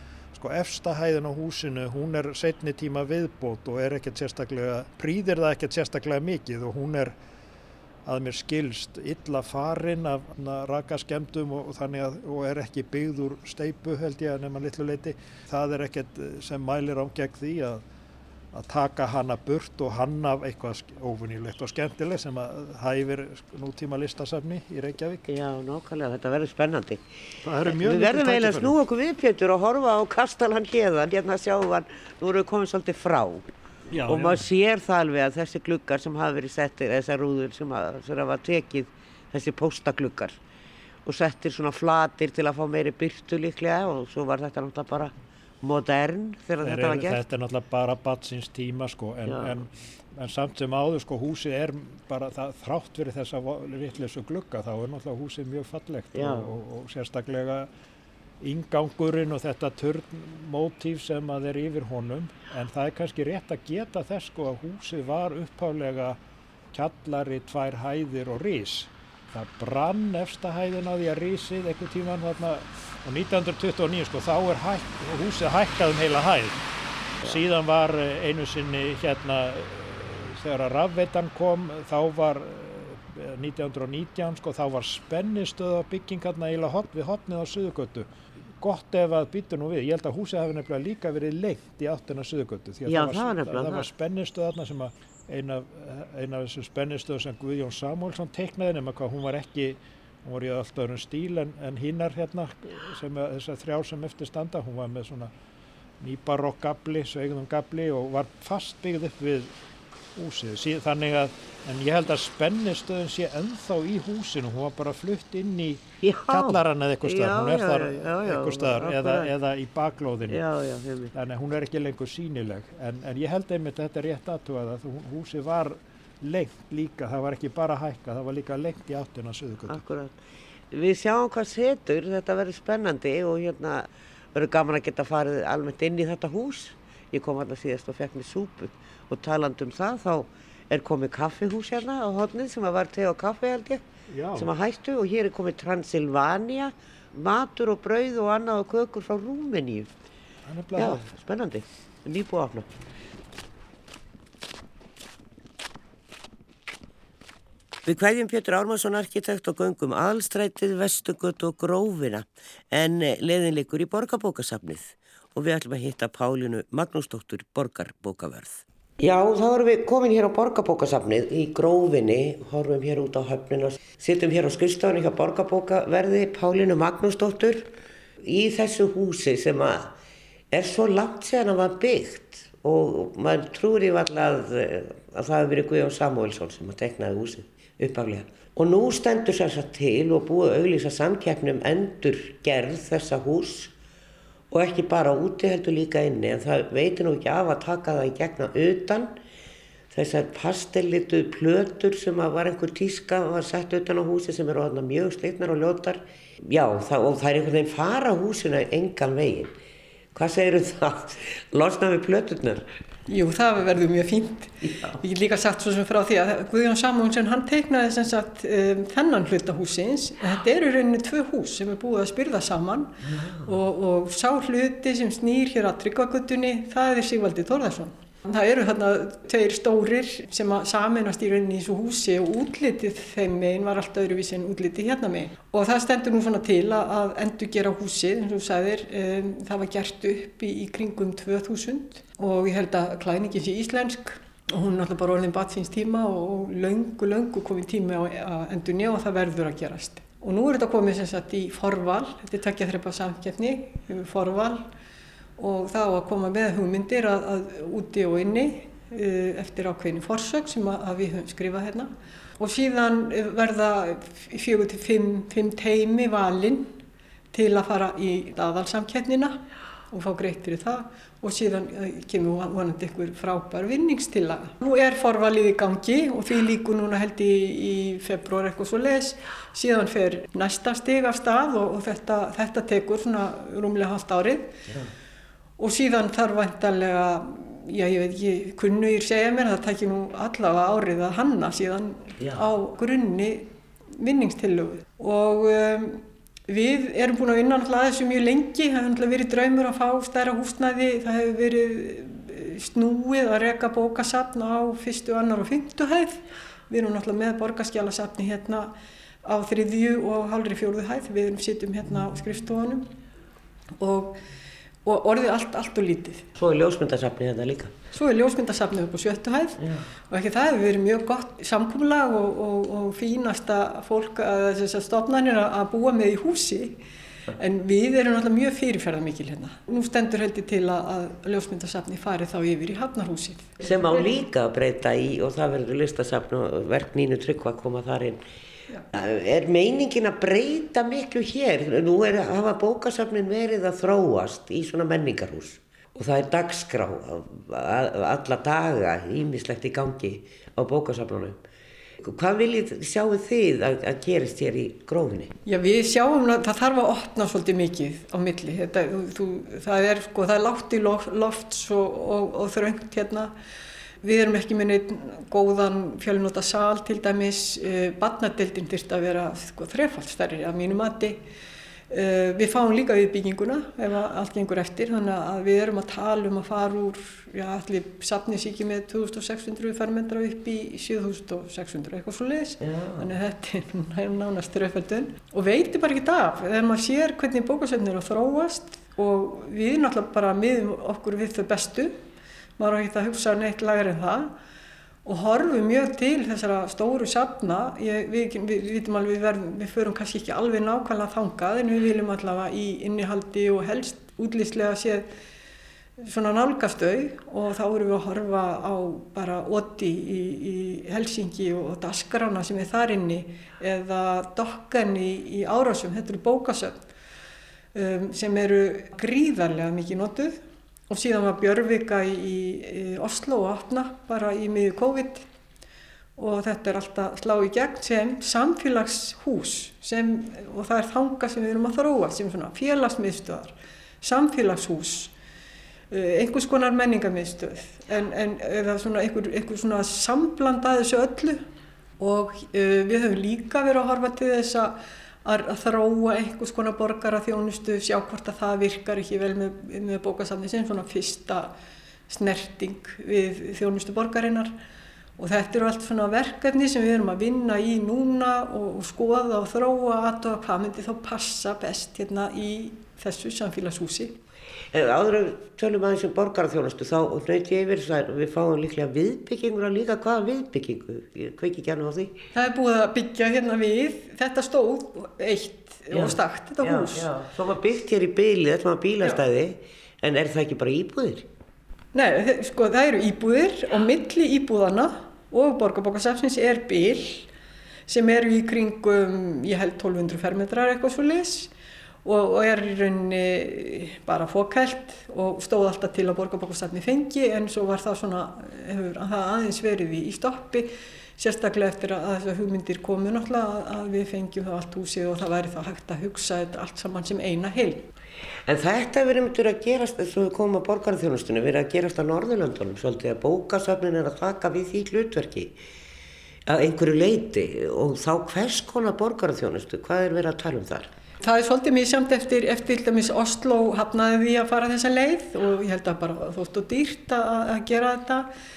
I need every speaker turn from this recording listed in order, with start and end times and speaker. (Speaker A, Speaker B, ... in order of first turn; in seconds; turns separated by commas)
Speaker A: 0.3-7.1, Speaker A: 8.1-17.8, Speaker A: 18.5-25.2, Speaker B: 25.3-27.0, Speaker A: 27.4-28.7, Speaker B: 27.6-33.5, Speaker A: 33.9-34.4, Speaker B: 34.0-40.4, Speaker B: 41.0-47.2, Speaker A: 46.6-57.7, Speaker B: 49.2-49.5, Speaker B: 56.1-56.5, Speaker A: 58.4-66.2, Speaker A: 66.7-76.6, Speaker A: 77.2-88.1, Speaker A: 88.6-105.3, Speaker B: 92.8-93.8, Speaker A: 106.0-109.5, Speaker A: 110.2-120.5, Speaker B: 116.0-119.3, Speaker B: 120.3-121.1, Speaker A: 121.1-129.8, Speaker B: 129.7-130.2, Speaker B: 130.7-143.8, Speaker A: 144.1-144.5, Speaker B: 144.3-149.9, Speaker A: 150.4-151.1, Speaker B: 150.7-152.7, Speaker B: 157.8-179.9, Speaker B: 180.5-193.7, Speaker B: 194.5-199.1, Speaker B: 199.9-209.5, Speaker B: 210.1-212.6, Speaker C: 213.1-254.7, Speaker B: 223.1-223.5, Speaker C: 255.4-266.7, Speaker C: 267.3-284.6, Speaker B: 284.7-284.9, Speaker C: 285.6-308.7, Speaker C: 309.2-312.9, Speaker C: 313.8-314.2, Speaker C: 314.8-316.3, Speaker B: 316.4-317.7, Speaker C: 317.9-326.8, Speaker C: 327.3-334.0, Speaker B: 333.6-338.2, Speaker B: 338.9-351.4, Speaker B: 352.0-355.3, Speaker C: 355.4-363.3, Speaker C: 364.0-371.2, Speaker C: 371.9-392.0, Speaker B: 382.6-383.1, Speaker C: 392.6-394.3, Speaker C: 395.0-405.0, Speaker C: 406.0-416.9, Speaker C: 417.7-425.2, Speaker C: 426.2-435.1, Speaker C: 435.9-441.4, Speaker C: 442.0-451.5, Speaker C: 452.1-454.5, Speaker C: 455.2-464.2, Speaker B: 464.7-472.2, Speaker C: 472.3-477.1, Speaker B: 475.9-481.3, Speaker C: 481.9-487.3, Speaker C: 487.9-491.5, Speaker C: 492.0-507.9, Speaker B: 508.4-515.6, Speaker B: 516.5-520.9, Speaker C: 521.2-528.3